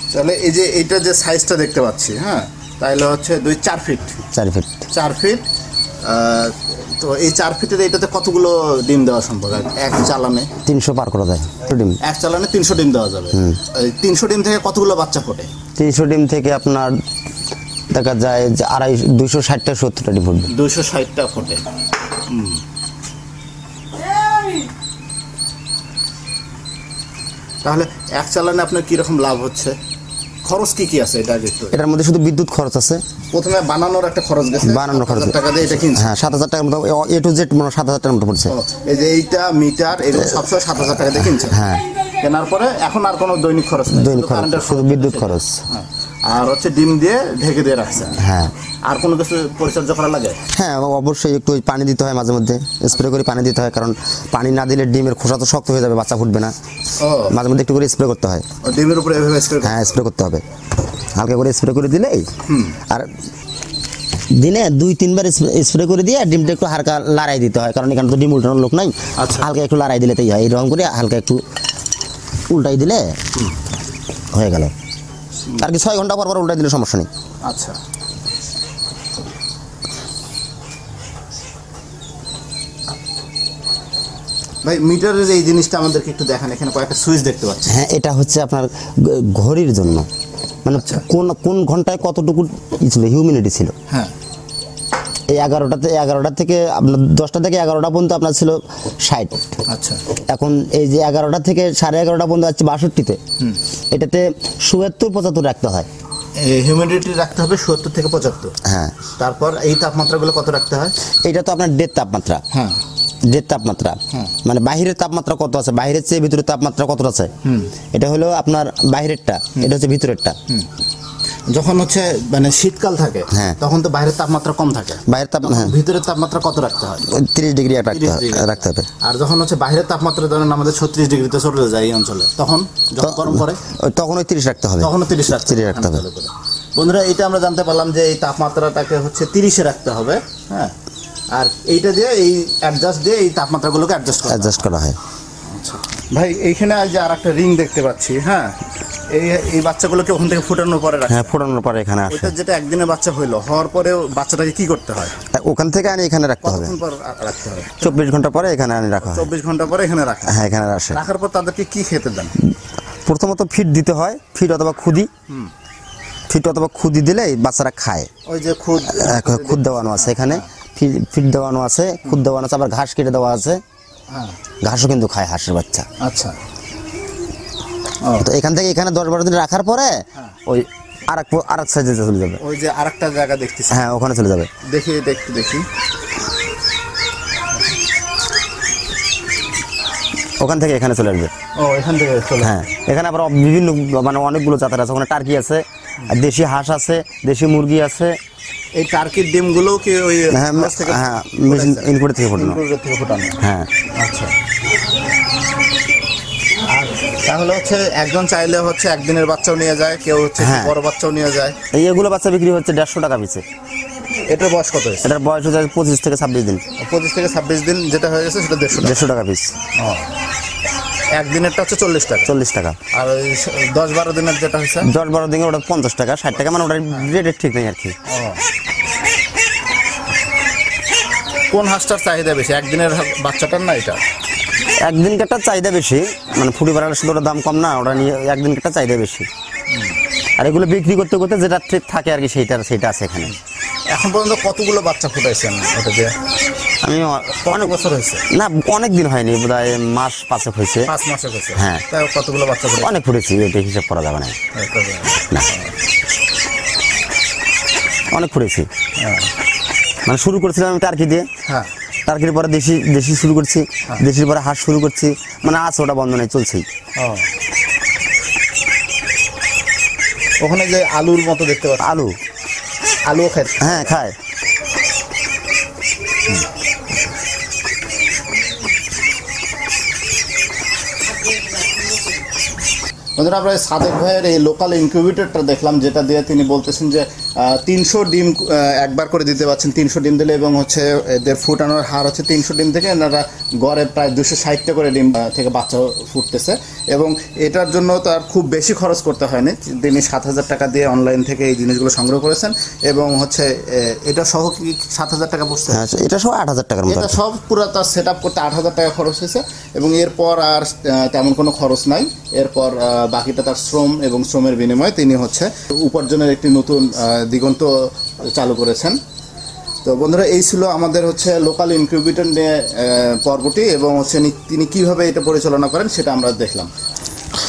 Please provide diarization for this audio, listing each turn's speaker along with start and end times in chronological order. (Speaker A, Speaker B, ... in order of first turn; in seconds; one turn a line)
Speaker A: 0.1-4.2
Speaker B: 4.3-4.8
Speaker A: 4.9-5.4
Speaker A: 6.0-10.5
Speaker B: 10.7-12.0
Speaker A: 12.0-15.5
Speaker B: 13.3-13.6
Speaker B: 15.8-17.0
Speaker B: 17.9-20.5
Speaker A: 20.5-21.6
Speaker A: 22.3-22.6
Speaker A: 27.6-29.8
Speaker A: 30.4-31.8
Speaker B: 31.7-33.0
Speaker A: 33.3-36.1
Speaker B: 34.6-35.4
Speaker B: 35.9-38.5
Speaker A: 38.5-41.6
Speaker B: 40.2-40.4
Speaker B: 41.0-41.8
Speaker A: 42.2-48.2
Speaker B: 43.9-45.6
Speaker B: 48.2-48.5
Speaker A: 48.9-50.4
Speaker B: 50.5-56.5
Speaker A: 57.0-57.4
Speaker B: 57.3-58.5
Speaker A: 58.6-60.0
Speaker B: 59.6-60.4
Speaker B: 61.1-62.3
Speaker A: 62.5-62.8
Speaker B: 64.4-71.4
Speaker A: 69.2-69.5
Speaker B: 72.5-73.2
Speaker B: 74.3-74.7
Speaker B: 75.6-77.1
Speaker A: 77.5-77.8
Speaker A: 84.6-87.8
Speaker B: 87.7-90.1
Speaker B: 90.7-93.7
Speaker A: 90.7-91.0
Speaker B: 95.3-99.4
Speaker A: 99.7-100.0
Speaker B: 100.3-103.2
Speaker B: 103.9-105.9
Speaker A: 106.4-108.5
Speaker B: 108.6-109.0
Speaker A: 109.2-111.0
Speaker B: 111.2-112.4
Speaker A: 112.5-112.8
Speaker B: 113.2-117.3
Speaker A: 117.4-117.7
Speaker B: 117.9-120.4
Speaker A: 121.5-127.1
Speaker B: 123.3-123.6
Speaker B: 125.1-125.7
Speaker B: 127.1-128.9
Speaker A: 127.9-133.6
Speaker B: 133.0-136.0
Speaker A: 134.8-140.8
Speaker A: 141.3-144.7
Speaker B: 144.3-145.0
Speaker A: 145.5-148.6
Speaker A: 149.1-151.4
Speaker B: 151.1-152.3
Speaker A: 152.1-155.2
Speaker B: 155.3-156.8
Speaker A: 156.4-158.0
Speaker B: 157.8-159.3
Speaker A: 159.0-162.3
Speaker B: 160.3-161.0
Speaker B: 163.1-165.1
Speaker B: 166.3-168.1
Speaker A: 168.3-170.5
Speaker B: 168.9-173.6
Speaker A: 174.1-174.4
Speaker B: 174.6-175.9
Speaker A: 176.0-176.4
Speaker A: 178.0-178.3
Speaker B: 178.2-182.4
Speaker A: 182.4-183.9
Speaker B: 183.7-184.5
Speaker A: 184.6-185.7
Speaker B: 190.4-191.3
Speaker A: 191.6-192.6
Speaker B: 192.4-198.2
Speaker A: 198.8-203.4
Speaker B: 200.3-202.6
Speaker B: 203.4-203.7
Speaker A: 204.0-204.3
Speaker A: 206.7-211.6
Speaker B: 210.4-210.7
Speaker B: 211.7-213.4
Speaker A: 214.3-215.1
Speaker B: 215.0-216.6
Speaker A: 216.8-219.1
Speaker B: 218.7-219.5
Speaker A: 219.8-220.1
Speaker A: 221.1-222.3
Speaker B: 222.3-222.8
Speaker A: 222.9-224.9
Speaker B: 224.8-228.0
Speaker A: 228.1-228.4
Speaker A: 231.5-234.0
Speaker B: 234.7-239.3
Speaker A: 239.7-240.0
Speaker B: 240.4-243.3
Speaker A: 243.9-246.2
Speaker B: 246.8-247.8
Speaker A: 247.4-248.3
Speaker B: 248.3-250.9
Speaker A: 250.8-252.9
Speaker B: 251.6-251.8
Speaker B: 252.8-254.4
Speaker A: 254.5-255.7
Speaker B: 258.1-258.7
Speaker A: 259.0-259.3
Speaker B: 260.1-261.3
Speaker A: 261.4-261.7
Speaker B: 262.1-266.7
Speaker A: 267.0-267.3
Speaker A: 270.4-272.0
Speaker B: 271.8-272.2
Speaker A: 273.1-274.0
Speaker B: 273.6-274.1
Speaker A: 283.2-305.9
Speaker B: 305.7-307.2
Speaker A: 306.9-317.7
Speaker A: 318.2-319.0
Speaker A: 319.9-326.7